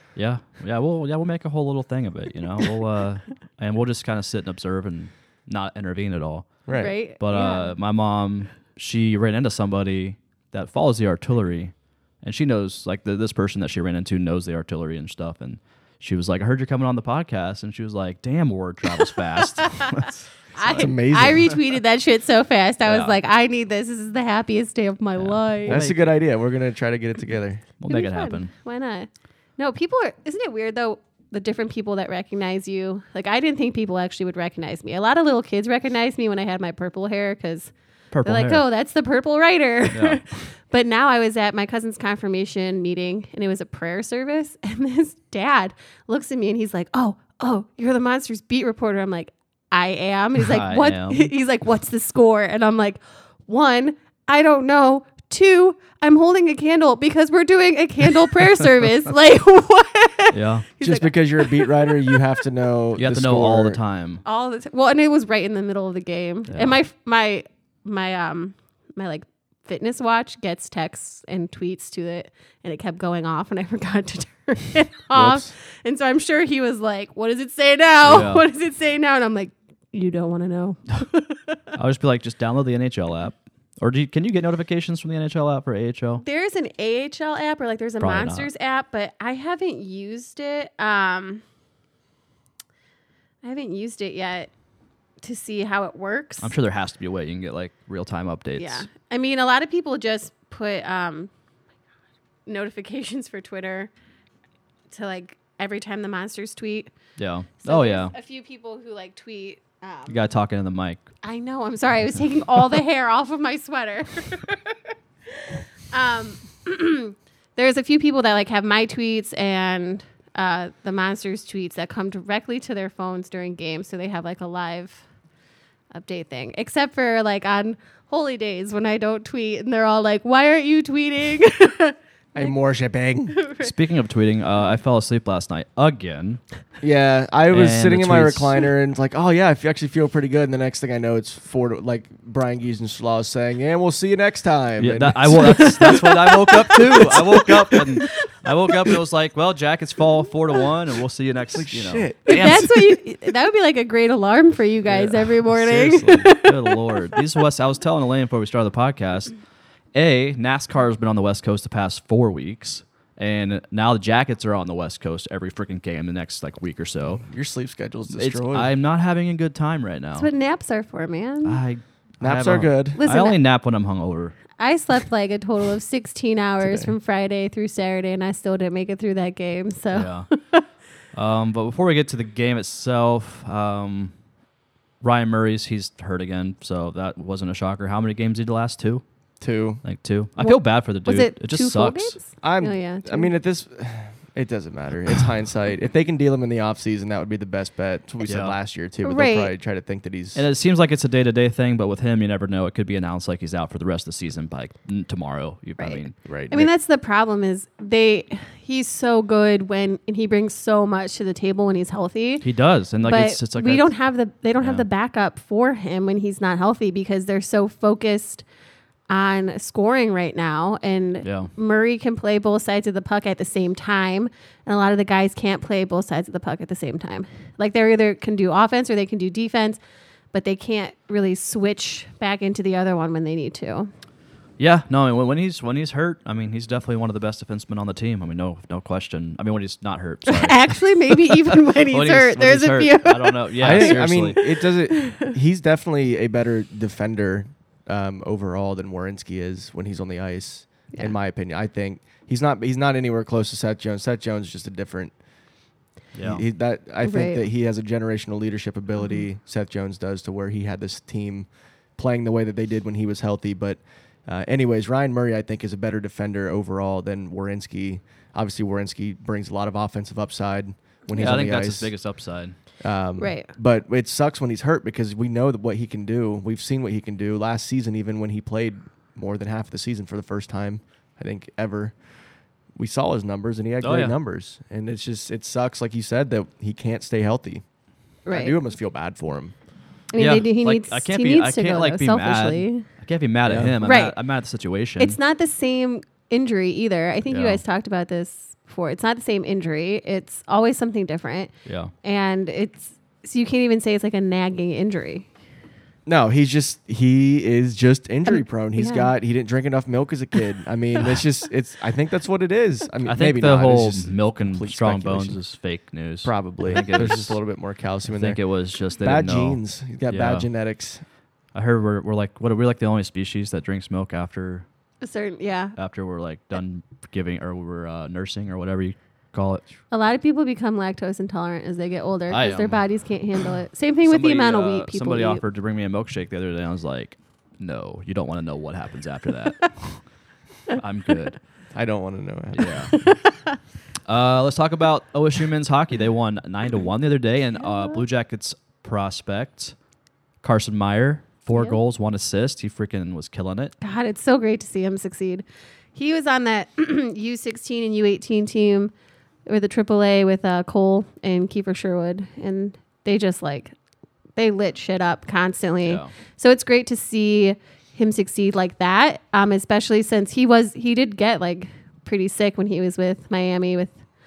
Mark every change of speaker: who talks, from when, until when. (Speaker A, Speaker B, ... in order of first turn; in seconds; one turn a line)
Speaker A: 0.2-21.5
Speaker B: 6.7-6.9
Speaker C: 6.7-7.8
Speaker C: 19.6-25.8
Speaker B: 20.8-21.5
Speaker A: 22.9-23.2
Speaker A: 25.2-26.1
Speaker B: 25.7-27.6
Speaker A: 27.8-28.5
Speaker C: 27.9-37.7
Speaker A: 38.1-38.6
Speaker C: 38.2-62.2
Speaker A: 39.9-40.2
Speaker A: 50.4-51.3
Speaker A: 60.3-60.7
Speaker B: 60.8-63.8
Speaker A: 63.0-64.2
Speaker C: 64.2-81.7
Speaker A: 66.5-66.8
Speaker B: 75.1-75.5
Speaker A: 78.0-78.5
Speaker A: 81.7-86.2
Speaker C: 86.2-91.4
Speaker A: 88.0-88.5
Speaker C: 93.4-94.5
Speaker C: 95.2-96.5
Speaker A: 96.4-98.9
Speaker C: 98.6-101.3
Speaker C: 102.5-103.9
Speaker C: 104.9-106.9
Speaker A: 107.2-108.1
Speaker C: 107.6-110.2
Speaker A: 110.1-111.0
Speaker C: 111.2-114.8
Speaker C: 115.3-125.0
Speaker C: 125.9-132.6
Speaker B: 132.3-133.4
Speaker C: 133.3-133.7
Speaker A: 133.6-136.4
Speaker B: 136.8-145.8
Speaker A: 137.5-138.6
Speaker A: 144.8-152.8
Speaker C: 145.3-148.3
Speaker B: 151.5-152.7
Speaker C: 152.3-157.2
Speaker B: 155.6-156.2
Speaker A: 155.8-159.3
Speaker A: 159.9-167.2
Speaker B: 167.2-168.7
Speaker A: 168.1-170.3
Speaker C: 170.2-171.6
Speaker A: 171.4-174.4
Speaker B: 172.2-173.0
Speaker C: 173.0-173.4
Speaker C: 174.6-180.7
Speaker B: 176.6-176.9
Speaker A: 179.9-180.3
Speaker A: 181.1-184.1
Speaker A: 185.0-189.0
Speaker B: 189.4-189.8
Speaker A: 189.8-192.2
Speaker C: 190.4-193.3
Speaker B: 192.4-200.4
Speaker A: 198.2-198.6
Speaker C: 199.0-199.5
Speaker A: 200.3-206.2
Speaker C: 205.8-212.5
Speaker B: 206.2-206.7
Speaker A: 212.4-213.9
Speaker C: 213.0-218.4
Speaker A: 214.6-214.9
Speaker C: 219.1-229.8
Speaker A: 221.2-221.5
Speaker C: 230.3-233.9
Speaker A: 234.6-244.4
Speaker C: 240.3-245.3
Speaker B: 243.6-255.1
Speaker A: 256.1-256.4
Speaker B: 256.2-271.9
Speaker C: 257.0-257.4
Speaker A: 271.1-272.6
Speaker B: 272.8-282.0
Speaker C: 273.2-273.5
Speaker B: 282.8-287.6
Speaker A: 283.8-284.1
Speaker C: 288.3-288.6
Speaker B: 288.3-289.5
Speaker C: 290.1-292.9
Speaker A: 290.1-295.2
Speaker B: 293.5-293.8
Speaker C: 293.8-294.2
Speaker C: 295.0-305.3
Speaker A: 297.3-297.6
Speaker A: 301.7-301.9
Speaker B: 306.1-315.4
Speaker C: 308.3-309.1
Speaker A: 313.1-317.4
Speaker B: 316.2-318.4
Speaker A: 318.1-320.5
Speaker B: 319.0-321.0
Speaker A: 321.5-324.7
Speaker C: 325.0-325.8
Speaker A: 325.8-329.7
Speaker C: 329.9-335.4
Speaker A: 332.3-332.8
Speaker A: 334.0-340.0
Speaker A: 340.7-341.4
Speaker B: 341.8-343.0
Speaker A: 342.5-343.0
Speaker C: 342.9-343.6
Speaker A: 344.1-349.8
Speaker A: 350.4-353.7
Speaker C: 353.8-358.9
Speaker C: 359.5-363.7
Speaker C: 364.4-374.0
Speaker A: 365.8-366.1